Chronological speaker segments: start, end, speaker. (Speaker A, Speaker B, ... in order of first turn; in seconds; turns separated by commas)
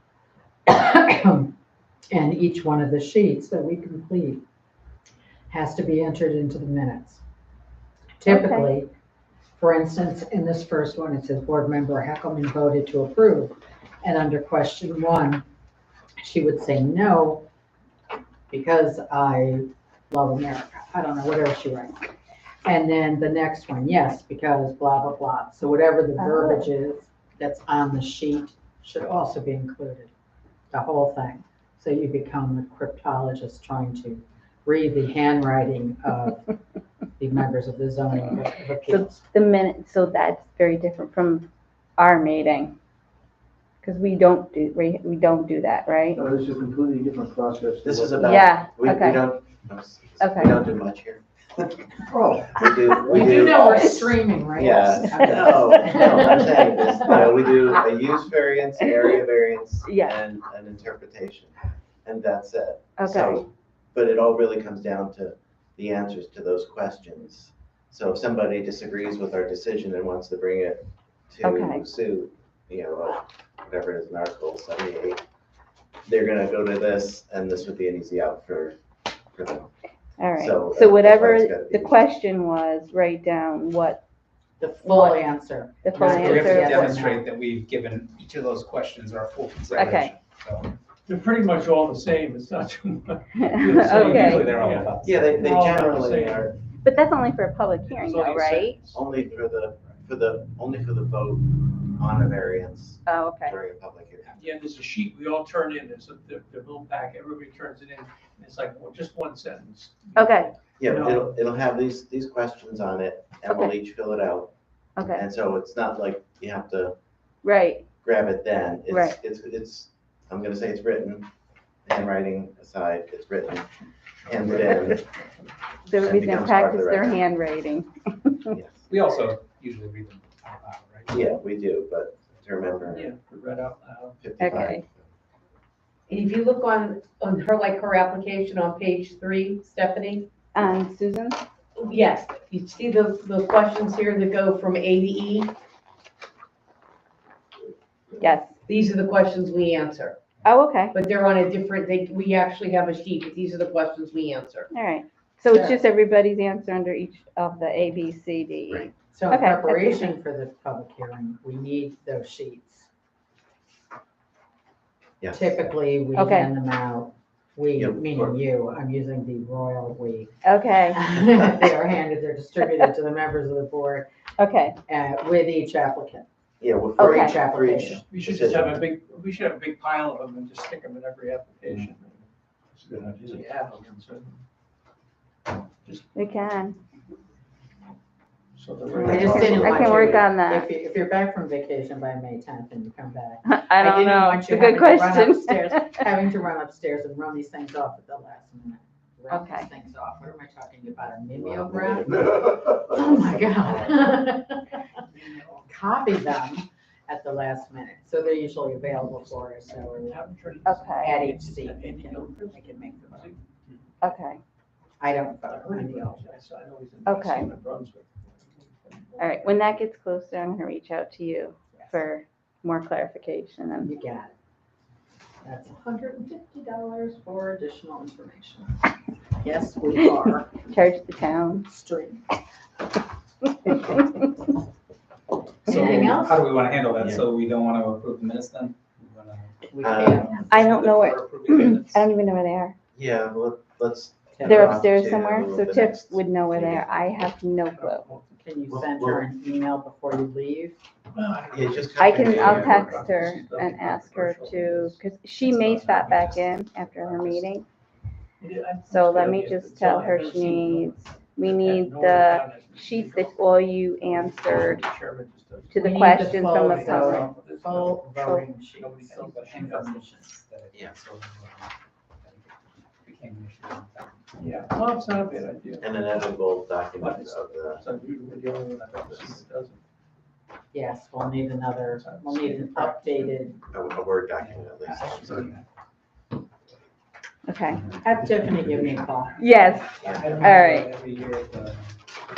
Speaker A: 0.7-1.5, Speaker A: 2.1-4.4, Speaker A: 5.5-7.2, Speaker A: 8.2-8.9, Speaker B: 8.2-8.7, Speaker A: 9.6-15.4, Speaker A: 16.2-17.5, Speaker A: 18.5-22.1, Speaker A: 22.6-30.1, Speaker B: 26.2-26.6, Speaker A: 30.7-36.5, Speaker A: 37.2-39.2, Speaker B: 38.9-42.7, Speaker B: 43.8-46.2, Speaker C: 46.1-48.2, Speaker D: 47.8-51.9, Speaker B: 48.2-49.3, Speaker B: 50.2-50.6, Speaker C: 52.1-53.6, Speaker D: 52.5-61.5, Speaker A: 53.0-57.2, Speaker B: 55.1-55.5, Speaker B: 59.9-60.2, Speaker D: 62.0-75.2, Speaker B: 63.0-63.4, Speaker B: 71.4-71.8, Speaker D: 76.0-78.8, Speaker D: 79.3-79.7, Speaker B: 80.2-84.0, Speaker D: 80.3-82.0, Speaker A: 84.6-87.2, Speaker B: 84.8-85.2, Speaker B: 85.8-86.9, Speaker E: 86.1-90.7, Speaker B: 89.8-90.1, Speaker F: 91.0-96.5, Speaker B: 93.4-94.5, Speaker E: 93.6-95.6, Speaker D: 95.0-96.5, Speaker B: 96.8-98.8, Speaker F: 97.9-99.0, Speaker D: 98.9-104.5, Speaker B: 103.1-103.6, Speaker F: 104.3-111.3, Speaker B: 110.2-110.5, Speaker D: 110.8-116.9, Speaker B: 115.0-115.2, Speaker B: 117.4-117.8, Speaker D: 118.0-121.3, Speaker B: 118.9-119.2, Speaker D: 121.8-123.7, Speaker D: 124.2-125.0, Speaker B: 125.9-128.6, Speaker D: 126.0-127.2, Speaker D: 128.5-128.8, Speaker E: 128.9-131.3, Speaker D: 131.1-133.1, Speaker F: 132.9-134.2, Speaker D: 134.2-134.9, Speaker B: 134.4-134.8, Speaker G: 136.1-140.3, Speaker B: 140.5-141.4, Speaker G: 141.8-145.5, Speaker B: 148.2-148.5, Speaker G: 148.7-150.2, Speaker B: 150.4-151.0, Speaker G: 150.9-154.7, Speaker B: 154.7-160.1, Speaker A: 155.5-155.8, Speaker A: 159.1-162.9, Speaker D: 165.2-165.6, Speaker A: 165.3-170.4, Speaker B: 166.2-166.5, Speaker D: 167.8-168.4, Speaker B: 170.4-171.0, Speaker A: 170.9-174.1, Speaker B: 174.4-174.8, Speaker A: 174.9-176.3, Speaker D: 176.6-178.8, Speaker A: 177.0-178.0, Speaker B: 177.0-177.3, Speaker F: 178.1-182.3, Speaker C: 182.8-183.5, Speaker F: 183.2-184.4, Speaker F: 185.8-186.1, Speaker B: 186.1-186.8, Speaker F: 188.6-189.6, Speaker D: 189.0-190.2, Speaker A: 189.0-204.8, Speaker B: 189.1-190.7, Speaker B: 193.4-196.0, Speaker B: 199.3-199.7, Speaker D: 201.3-204.1, Speaker F: 204.7-205.7, Speaker A: 205.6-210.3, Speaker F: 209.2-213.8, Speaker B: 210.7-211.2, Speaker A: 210.9-213.3, Speaker B: 214.0-214.4, Speaker A: 215.0-216.3, Speaker F: 215.4-219.5, Speaker B: 217.1-217.5, Speaker B: 219.2-223.9, Speaker A: 223.8-224.3, Speaker A: 225.4-228.8, Speaker A: 229.3-230.9, Speaker B: 230.7-231.7, Speaker A: 231.6-232.2, Speaker A: 235.7-236.5, Speaker E: 235.7-242.0, Speaker D: 237.0-237.2, Speaker A: 239.7-240.3, Speaker D: 239.8-240.3, Speaker B: 240.4-242.7, Speaker D: 242.9-247.0, Speaker A: 244.4-244.8, Speaker B: 244.4-248.0, Speaker F: 247.7-248.3, Speaker A: 248.3-250.8, Speaker D: 248.7-249.2, Speaker F: 251.1-257.5, Speaker D: 251.5-253.1, Speaker B: 252.0-257.6, Speaker F: 258.4-270.0, Speaker B: 258.9-264.8, Speaker B: 265.7-267.3, Speaker A: 265.8-270.3, Speaker E: 269.6-275.2, Speaker F: 274.4-276.2, Speaker D: 275.8-277.8, Speaker F: 277.0-279.8, Speaker A: 280.7-283.6, Speaker F: 281.8-283.5, Speaker D: 283.7-285.5, Speaker E: 284.4-285.6, Speaker B: 287.4-287.8, Speaker E: 287.7-292.0, Speaker A: 288.0-289.5, Speaker B: 289.4-290.9, Speaker A: 290.1-290.5